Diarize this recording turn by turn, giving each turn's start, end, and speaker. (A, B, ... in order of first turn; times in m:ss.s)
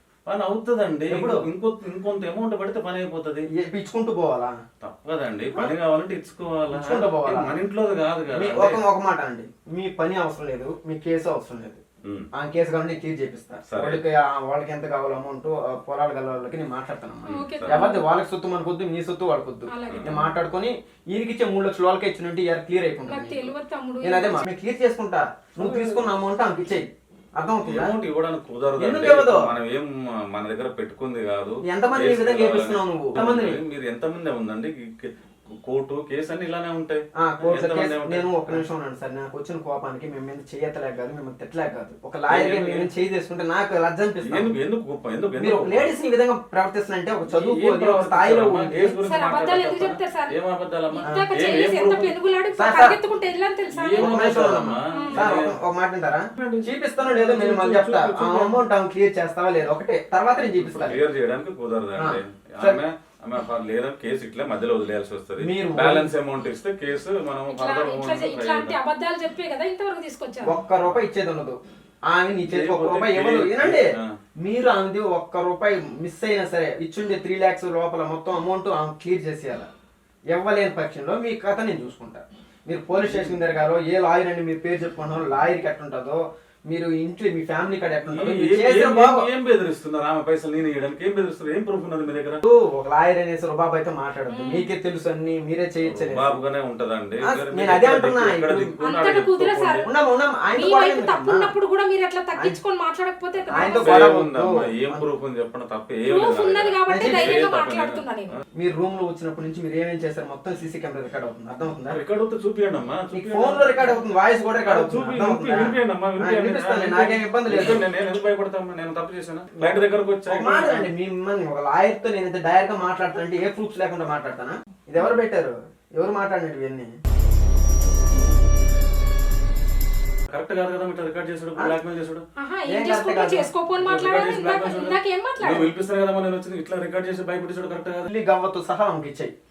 0:00.2-0:03.5 A
0:01.1-0:01.4 B
0:03.5-0:04.5 B
0:04.8-0:08.8 A
0:06.7-0:07.5 B
0:08.3-0:11.8 B
0:12.3-0:27.9 B
0:13.7-0:14.0 A
0:17.3-0:18.0 C
0:17.6-0:17.8 A
0:19.7-0:20.3 C
0:19.9-0:20.2 A
0:23.1-0:24.4 C
0:25.6-0:26.1 A
0:27.6-0:35.1 A
0:28.8-0:29.5 B
0:31.6-0:33.6 B
0:35.6-0:38.6 A
0:37.2-0:44.5 B
0:42.3-0:42.9 A
0:44.2-0:45.9 A
0:45.4-0:48.9 B
0:47.3-0:52.1 A
0:49.0-0:50.4 C
0:50.9-0:55.3 C
0:52.6-0:53.0 B
0:53.7-0:55.6 A
0:54.0-1:01.0 B
0:56.4-0:58.6 A
1:00.5-1:08.8 A
1:02.0-1:02.8 B
1:05.4-1:06.1 B
1:07.5-1:10.6 C
1:10.4-1:11.6 B
1:12.1-1:13.9 B
1:12.5-1:14.1 A
1:14.4-1:19.7 B
1:20.3-1:29.3 B
1:23.0-1:23.4 A
1:28.1-1:32.4 A
1:32.4-1:36.4 B
1:34.3-1:34.7 C
1:35.8-1:39.9 A
1:37.2-1:38.7 B
1:38.8-1:39.9 C
1:39.8-1:41.5 B
1:40.5-1:44.1 C
1:43.5-1:45.0 B
1:43.8-1:48.0 A
1:46.0-1:48.4 C
1:46.9-1:47.4 B
1:48.6-1:52.0 B
1:51.9-1:54.0 A
1:53.1-1:57.8 B
1:54.6-2:00.9 A
1:59.6-2:06.9 B
2:10.3-2:12.2 A
2:12.4-2:15.7 C
2:12.7-2:13.5 B
2:13.8-2:18.1 A
2:18.0-2:19.3 B